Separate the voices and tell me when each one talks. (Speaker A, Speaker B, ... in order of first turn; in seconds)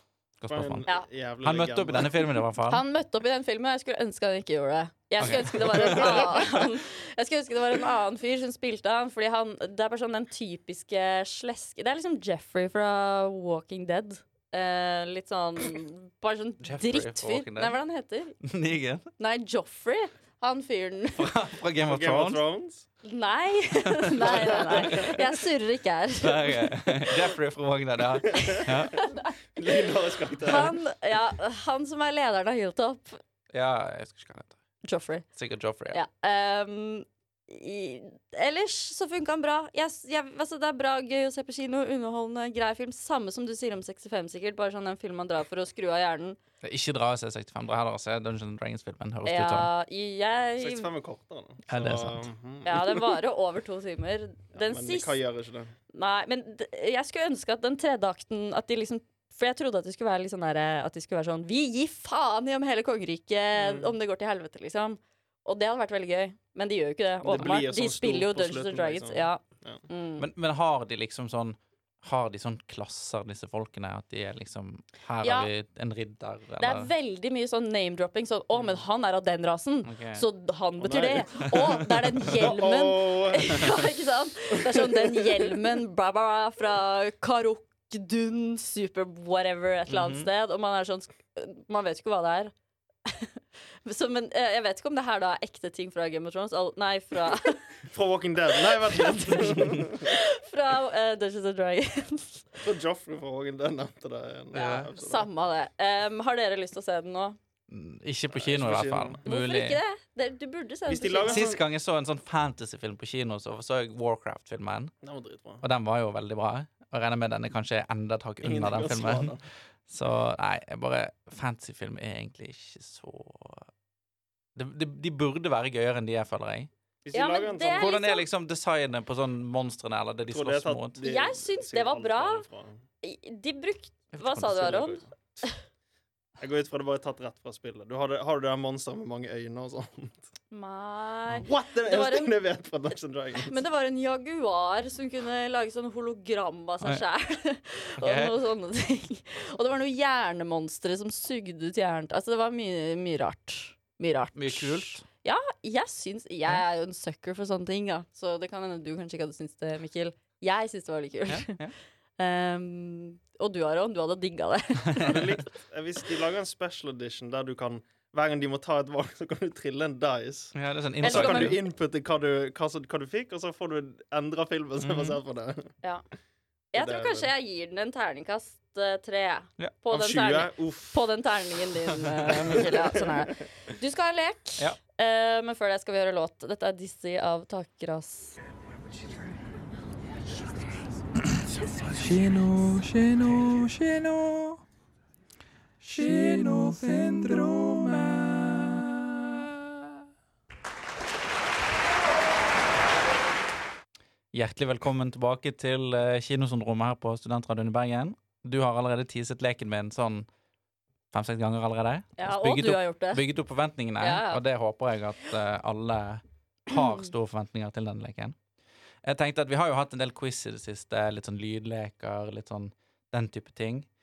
Speaker A: 0.4-0.9, 1.4-2.8, 5.2-6.6, 16.6-17.8, 18.4-19.1, 21.2-22.4, 26.2-29.0, 33.5-34.6, 35.4-36.0, 46.6-49.7, 51.7-52.3, 70.2-76.9, 79.8-80.2, 89.9-90.3, 104.5-104.9, 107.7-109.8, 111.3-114.9, 115.6-119.4, 119.9-123.7, 124.5-126.7, 127.8-131.0, 134.1-135.0, 148.0-148.4, 154.3-155.0, 161.3-161.7, 164.9-165.2, 170.6-171.6, 174.8-175.2, 191.9-194.6, 195.8-199.5, 204.3-210.3, 211.1-218.4, 219.0-223.9
Speaker B: 0.5-2.3, 5.6-6.2, 21.9-22.9, 24.2-25.2, 28.3-28.7, 29.6-30.7, 50.6-53.0, 54.5-55.7, 63.6-63.9, 67.2-69.8, 80.8-81.6, 82.3-83.8, 84.6-85.3, 97.8-100.1, 102.6-105.3, 108.3-109.2, 110.9-111.6, 115.0-115.6, 118.4-119.4, 127.0-127.9, 130.3-132.8, 136.4-140.2, 141.3-143.6, 165.0-175.7, 176.8-177.3, 179.9-181.0, 182.3-183.1
Speaker C: 2.7-18.4, 19.2-21.3, 23.0-27.1, 28.4-29.3, 30.4-33.2, 34.8-35.2, 35.9-46.4, 49.2-50.9, 52.6-55.2, 55.9-70.3, 75.2-75.5, 76.6-92.5, 93.1-93.3, 93.8-97.7, 98.7-102.5, 104.5-107.4, 109.3-111.5, 127.1-128.2, 131.0-132.4, 133.0-135.6, 140.5-142.3, 143.4-161.6, 162.2-165.2, 171.0-171.6, 176.7-188.4, 212.2-213.2, 214.0-214.4, 216.7-217.0